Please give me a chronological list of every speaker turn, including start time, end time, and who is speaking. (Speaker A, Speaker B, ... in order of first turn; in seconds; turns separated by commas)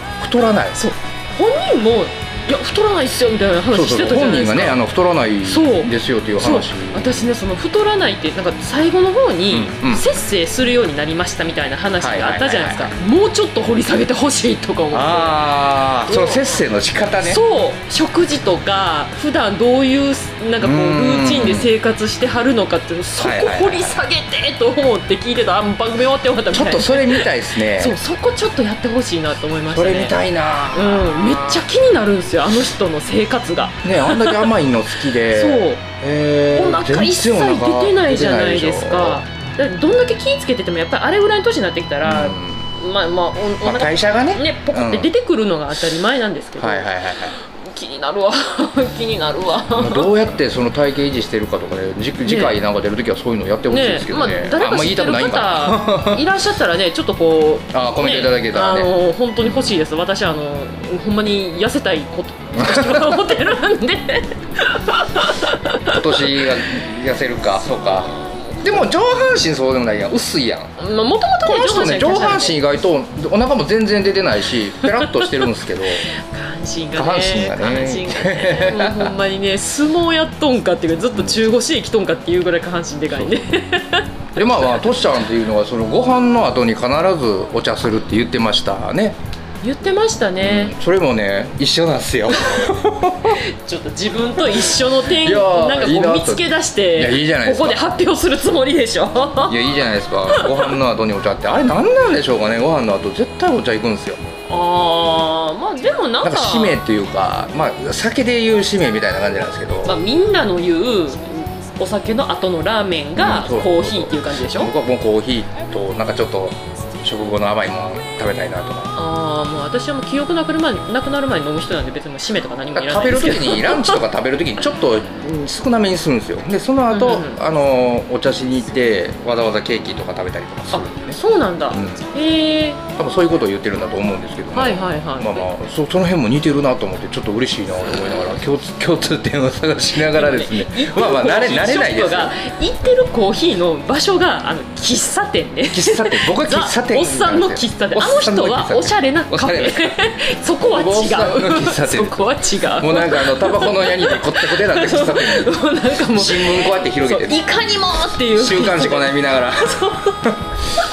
Speaker A: 0.2-0.8, Speaker B: 0.8-4.8, Speaker A: 3.7-7.3, Speaker B: 5.4-15.5, Speaker A: 9.5-10.1, Speaker A: 12.0-12.9, Speaker A: 14.9-17.4, Speaker B: 16.1-16.5, Speaker B: 17.2-30.1, Speaker A: 20.6-21.7, Speaker A: 23.2-24.0, Speaker A: 26.5-27.9, Speaker A: 29.7-31.6, Speaker B: 30.7-34.5, Speaker A: 33.8-39.2, Speaker B: 35.2-35.8, Speaker B: 36.5-50.1, Speaker A: 42.0-42.7, Speaker A: 43.6-45.1, Speaker A: 45.7-46.0, Speaker A: 46.6-47.3, Speaker A: 49.7-56.2, Speaker B: 52.2-52.6, Speaker B: 53.7-66.5, Speaker A: 57.7-58.9, Speaker A: 62.5-63.2, Speaker A: 65.8-70.7, Speaker B: 70.8-72.6, Speaker A: 71.4-76.1, Speaker B: 74.8-75.4, Speaker B: 76.1-84.9, Speaker A: 76.9-79.1, Speaker A: 81.1-81.4, Speaker A: 84.3-89.2, Speaker B: 89.6-90.7, Speaker A: 90.4-93.4, Speaker B: 93.2-100.8, Speaker A: 94.5-98.0, Speaker A: 99.4-104.2, Speaker B: 104.5-106.8, Speaker A: 106.2-110.0, Speaker B: 109.8-114.7, Speaker A: 113.2-118.9, Speaker B: 118.9-124.0, Speaker A: 122.7-131.2, Speaker B: 126.9-127.4, Speaker B: 130.7-132.8, Speaker A: 131.7-132.1, Speaker A: 132.9-142.3, Speaker B: 134.5-135.4, Speaker B: 139.9-160.1, Speaker A: 145.7-150.0, Speaker A: 150.7-157.4, Speaker A: 158.2-160.5